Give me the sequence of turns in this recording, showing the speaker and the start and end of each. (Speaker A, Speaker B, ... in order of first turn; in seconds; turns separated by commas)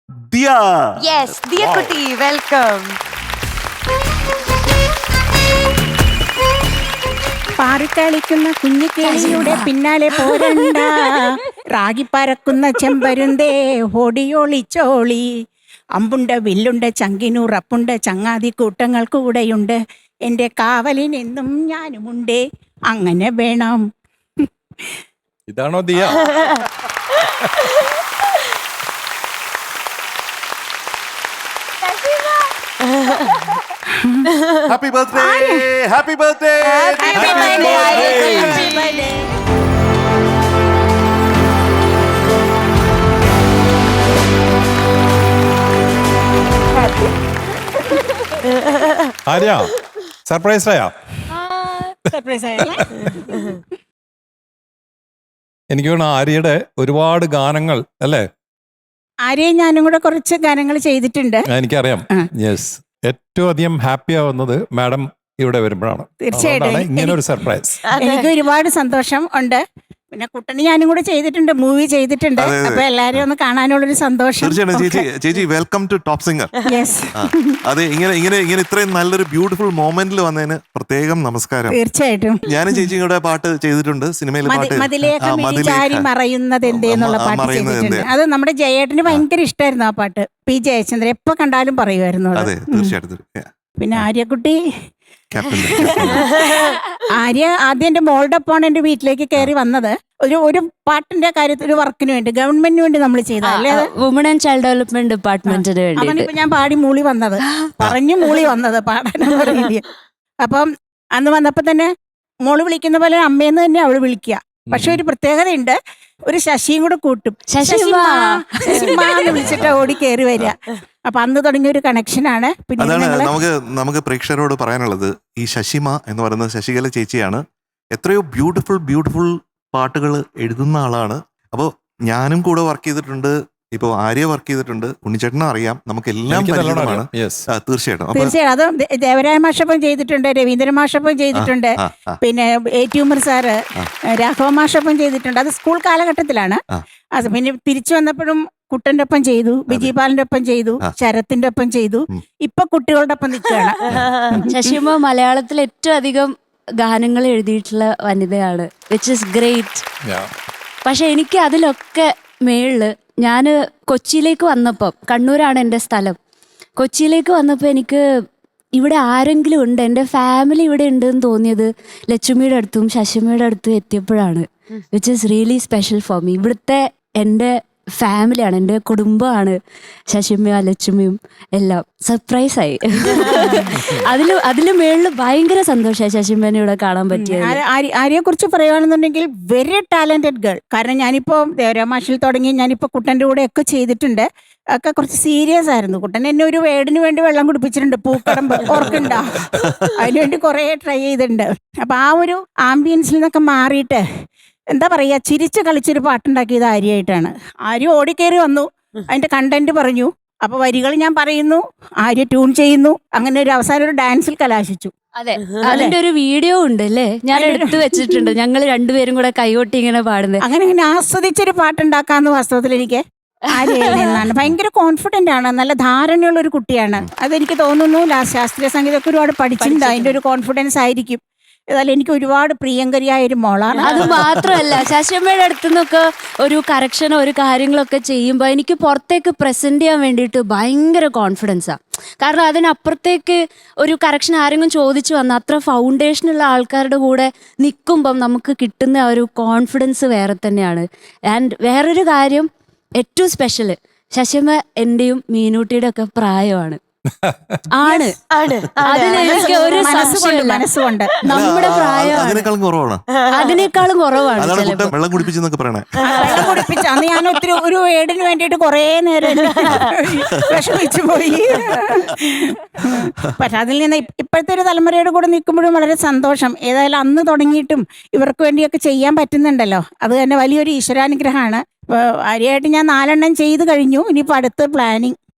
Speaker A: 0.3-0.7, Speaker B: 1.0-3.0, Speaker C: 1.6-1.9, Speaker D: 7.6-15.2, Speaker E: 9.0-9.7, Speaker D: 15.9-23.8, Speaker D: 24.4-24.9, Speaker C: 25.5-26.4, Speaker C: 27.4-27.7, Speaker D: 31.8-32.4, Speaker B: 32.9-33.3, Speaker D: 33.9-34.2, Speaker A: 34.6-37.3, Speaker D: 35.1-35.6, Speaker B: 36.6-39.0, Speaker D: 37.0-39.2, Speaker C: 37.1-38.7, Speaker D: 46.8-47.1, Speaker C: 49.2-49.7, Speaker C: 50.2-50.9, Speaker D: 52.1-53.6, Speaker C: 55.7-58.2, Speaker D: 59.2-61.5, Speaker C: 61.5-67.8, Speaker D: 66.2-67.2, Speaker B: 67.9-68.3, Speaker D: 68.0-75.0, Speaker A: 72.4-73.2, Speaker A: 74.4-76.5, Speaker D: 76.7-77.6, Speaker A: 77.2-81.8, Speaker D: 81.7-82.8, Speaker A: 82.5-86.1, Speaker D: 84.5-92.9, Speaker A: 86.7-88.1, Speaker A: 92.4-94.0, Speaker D: 93.8-94.6, Speaker A: 95.3-96.3, Speaker D: 95.7-103.9, Speaker E: 103.4-106.3, Speaker D: 105.5-109.8, Speaker D: 110.4-111.9, Speaker D: 112.4-115.8, Speaker C: 114.7-115.0, Speaker D: 116.3-123.3, Speaker E: 117.5-119.4, Speaker A: 119.4-119.7, Speaker C: 119.4-119.7, Speaker A: 122.8-127.4, Speaker A: 127.9-138.3, Speaker C: 136.3-137.4, Speaker D: 138.1-143.6, Speaker A: 141.3-142.2, Speaker D: 144.2-146.6, Speaker D: 147.1-154.8, Speaker B: 153.9-154.4, Speaker E: 154.4-156.3, Speaker E: 156.8-159.8, Speaker C: 160.0-160.3, Speaker E: 160.8-166.2, Speaker E: 166.8-168.0, Speaker E: 168.8-179.6, Speaker E: 180.1-187.6, Speaker D: 183.3-183.8, Speaker D: 187.1-204.0, Speaker A: 198.7-199.8, Speaker D: 204.7-214.9, Speaker E: 215.2-220.4, Speaker D: 215.6-215.9, Speaker D: 217.3-218.3, Speaker D: 220.4-234.1, Speaker E: 223.6-224.2, Speaker E: 229.6-230.2, Speaker B: 233.7-234.1, Speaker E: 233.8-252.5, Speaker E: 253.0-256.8, Speaker C: 257.2-257.6, Speaker E: 257.7-258.1, Speaker D: 257.8-258.1, Speaker B: 258.3-260.2, Speaker E: 258.8-260.7, Speaker D: 258.9-261.5, Speaker E: 261.3-262.5, Speaker A: 261.3-263.0, Speaker B: 263.1-263.6, Speaker E: 263.3-264.9, Speaker A: 264.4-266.6, Speaker D: 266.0-285.1, Speaker B: 266.1-266.8, Speaker B: 269.4-269.9, Speaker A: 269.7-270.5